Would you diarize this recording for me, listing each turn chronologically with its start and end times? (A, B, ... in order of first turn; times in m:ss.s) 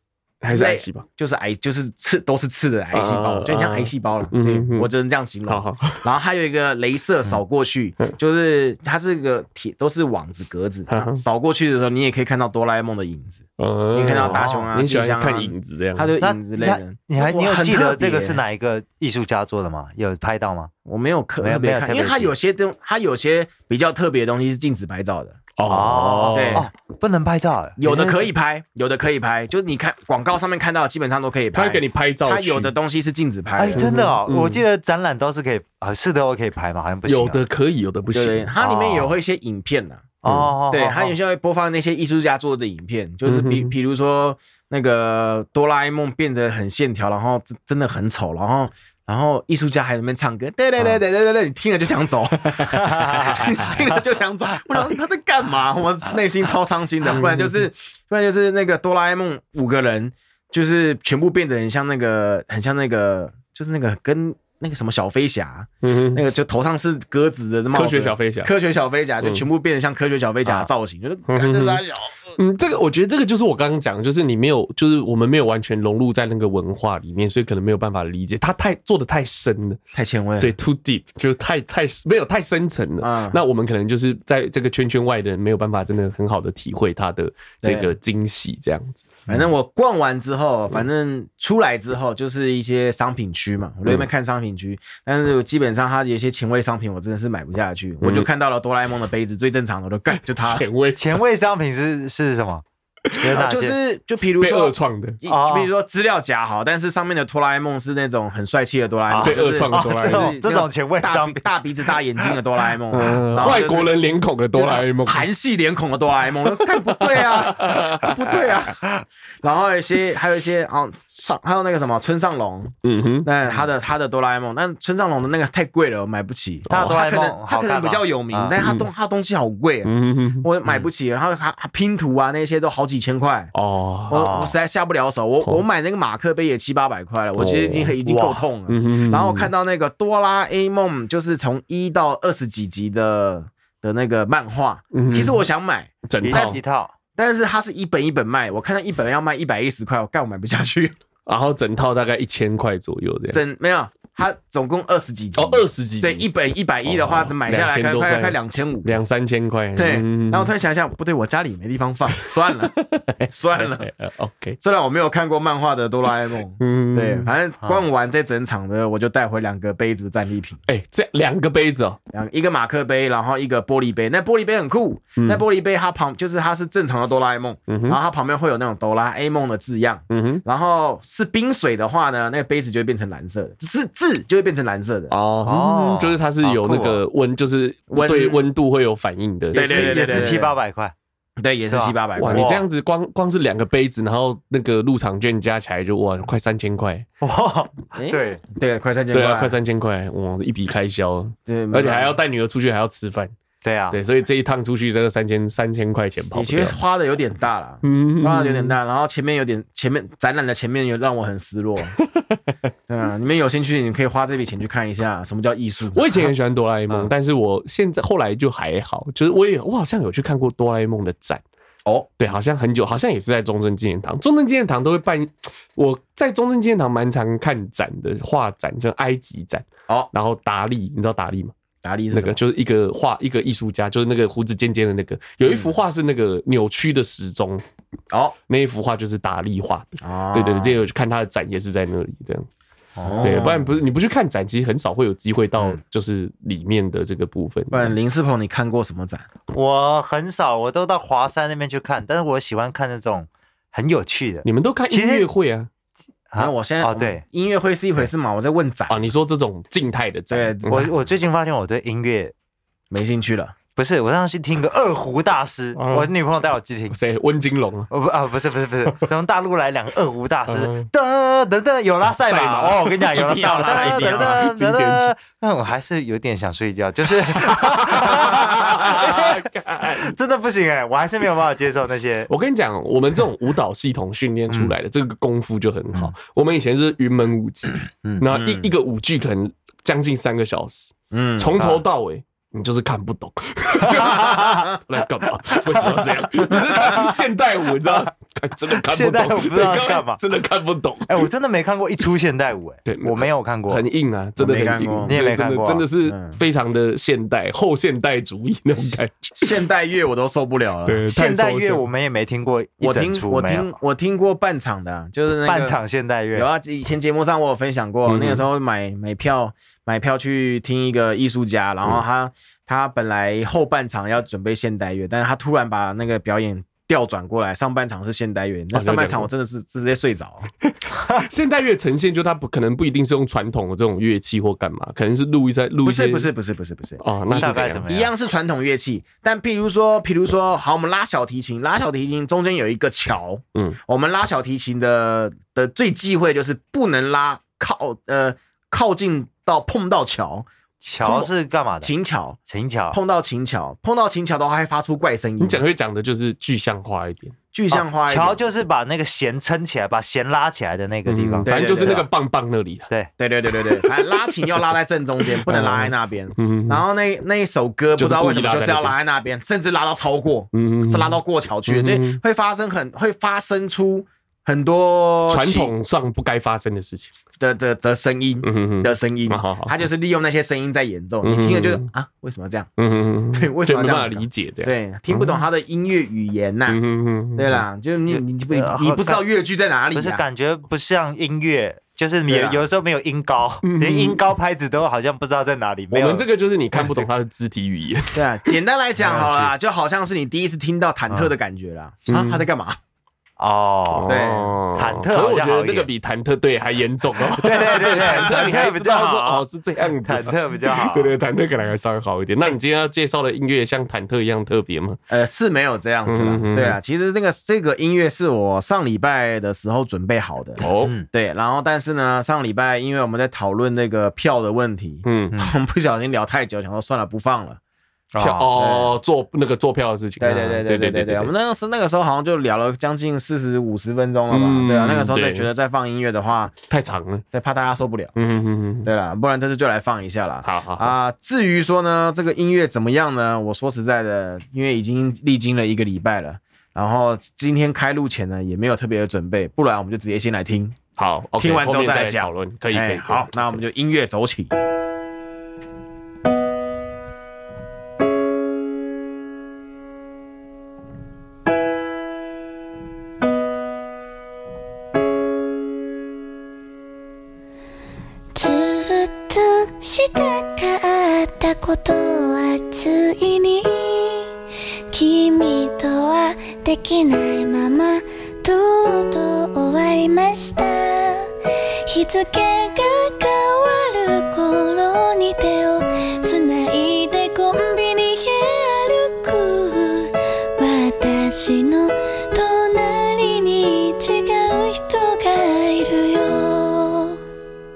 0:00.4-0:01.0 A
0:00.5-0:18.4 B
0:02.9-0:04.9 A
0:05.5-0:06.0 A
0:10.9-0:11.2 A
0:13.6-0:16.1 A
0:14.2-0:14.7 C
0:16.2-0:20.7 C
0:20.8-0:25.4 B
0:21.4-0:22.3 C
0:25.6-0:26.7 A
0:25.7-0:28.2 C
0:26.3-0:26.7 B
0:27.8-0:33.9 B
0:31.5-0:32.7 A
0:33.6-0:37.4 C
0:33.7-0:34.6 A
0:37.1-0:38.5 A
0:38.1-0:40.1 B
0:38.6-0:39.1 C
0:40.2-0:41.1 C
0:40.2-0:40.5 A
0:40.7-1:12.4 B
0:43.2-0:43.7 A
0:52.8-0:53.3 C
0:53.2-0:53.7 A
0:57.1-0:57.6 A
1:05.8-1:06.2 A
1:07.7-1:08.5 A
1:11.3-1:11.8 A
1:12.4-1:19.8 A
1:19.9-1:20.5 B
1:20.4-1:29.1 A
1:23.0-1:23.4 B
1:27.6-1:27.9 B
1:29.3-1:40.6 B
1:38.0-1:38.3 A
1:40.3-1:41.2 A
1:41.0-1:42.6 C
1:43.2-1:43.8 C
1:43.3-1:53.9 B
1:44.4-1:45.2 A
1:45.3-1:45.7 C
1:49.1-1:51.5 C
1:49.2-1:50.3 A
1:52.9-1:55.2 A
1:54.5-2:13.5 B
1:56.6-1:58.7 A
2:02.8-2:03.3 A
2:06.7-2:07.0 A
2:06.7-2:08.6 C
2:08.6-2:08.9 A
2:09.8-2:10.5 A
2:13.5-2:14.2 A
2:14.1-2:26.6 B
2:14.1-2:14.6 C
2:17.4-2:19.5 A
2:24.9-2:25.4 A
2:26.1-2:26.6 A
2:26.2-2:26.9 C
2:27.2-2:30.9 B
2:31.2-2:33.4 A
2:33.3-2:39.0 B
2:35.4-2:36.3 A
2:36.8-2:40.5 A
2:39.8-2:42.7 B
2:42.8-2:44.6 A
2:43.3-2:43.9 B
2:44.6-2:50.6 B
2:46.6-2:47.3 A
2:50.7-2:52.0 A
2:52.1-3:05.1 B
2:55.2-2:55.4 A
2:57.7-2:58.0 A
3:00.1-3:00.4 A
3:05.1-3:10.3 A
3:05.4-3:07.0 C
3:07.9-3:08.4 B
3:09.5-3:10.9 C
3:09.5-3:10.6 B
3:11.4-3:12.6 B
3:11.7-3:12.6 C
3:12.2-3:17.0 A
3:17.2-3:18.4 C
3:18.0-3:19.6 B
3:19.1-3:23.3 A
3:21.5-3:22.2 B
3:23.6-3:24.0 C
3:23.9-3:26.8 A
3:26.3-3:31.9 B
3:27.8-3:28.8 A
3:32.0-3:32.4 A
3:32.9-3:36.1 B
3:35.9-3:41.4 A
3:42.2-3:51.5 A
3:51.8-3:52.4 B
3:52.1-3:57.6 A
3:55.4-3:55.7 B
3:58.5-4:02.5 A
4:00.0-4:00.8 B
4:03.0-4:03.4 C
4:03.0-4:03.7 B
4:03.2-4:07.9 A
4:07.7-4:09.2 B
4:09.5-4:15.3 C
4:14.4-4:15.7 A
4:16.3-4:17.2 C
4:16.4-4:19.1 B
4:18.9-4:20.9 A
4:20.3-4:20.9 B
4:20.7-4:22.3 C
4:22.9-4:23.6 B
4:23.8-4:27.0 C
4:25.8-4:26.1 A
4:26.9-4:27.9 A
4:27.9-4:42.3 C
4:30.5-4:30.9 A
4:32.2-4:35.1 A
4:33.1-4:34.4 B
4:37.4-4:40.2 A
4:42.3-5:01.3 A
4:48.3-4:48.7 B
4:51.1-4:51.6 B
4:54.0-4:54.6 C
4:55.6-4:56.0 C
4:56.6-4:57.1 C
4:58.8-5:00.2 C
5:01.1-5:03.8 C
5:02.8-5:09.5 A
5:04.4-5:05.2 B
5:05.0-5:05.8 C
5:06.0-5:06.4 B
5:09.4-5:11.0 B
5:10.8-5:11.8 A
5:11.1-5:13.7 C
5:12.8-5:15.8 B
5:15.4-5:16.5 C
5:16.3-5:30.4 B
5:18.1-5:18.4 A
5:28.7-5:29.3 A
5:31.0-5:36.3 A
5:35.8-5:50.4 B
5:37.0-5:37.9 A
5:37.3-5:38.1 C
5:50.8-5:51.9 C
5:51.0-5:52.4 B
5:52.5-5:53.0 C
5:52.9-5:55.6 B
5:55.4-5:57.3 A
5:57.5-5:58.4 B
5:57.7-6:02.1 C
6:01.1-6:02.9 A
6:01.4-6:02.1 B
6:03.2-6:15.7 B
6:03.8-6:04.5 A
6:05.4-6:06.8 A
6:08.0-6:08.9 A
6:10.5-6:12.2 A
6:15.3-6:17.1 A
6:17.4-6:22.7 B
6:18.4-6:19.7 A
6:21.2-6:21.9 A
6:22.8-6:25.4 A
6:23.3-6:26.8 B
6:26.7-6:27.6 A
6:27.3-6:30.2 B
6:28.1-6:29.2 C
6:29.9-6:36.2 C
6:32.3-6:32.6 B
6:33.6-6:34.2 A
6:35.9-6:39.5 A
6:38.1-6:42.8 B
6:42.1-6:42.4 A
6:43.4-6:44.1 C
6:43.9-6:55.0 A
6:44.1-6:44.6 B
6:44.7-6:45.9 C
6:47.3-6:49.4 C
6:48.0-6:48.4 B
6:50.0-6:51.2 C
6:55.1-7:07.6 B
6:56.0-6:56.8 A
7:00.6-7:00.9 A
7:05.0-7:05.3 A
7:08.1-7:08.5 C
7:08.2-7:11.3 A
7:08.6-7:08.9 B
7:10.2-7:16.5 B
7:14.3-7:15.5 A
7:16.7-7:17.2 A
7:17.3-7:18.1 B
7:18.2-7:18.9 A
7:18.8-7:30.8 B
7:20.4-7:20.9 A
7:31.0-7:33.6 A
7:31.4-7:34.5 B
7:48.3-7:54.4 D
7:54.9-8:01.3 D
8:01.9-8:17.2 D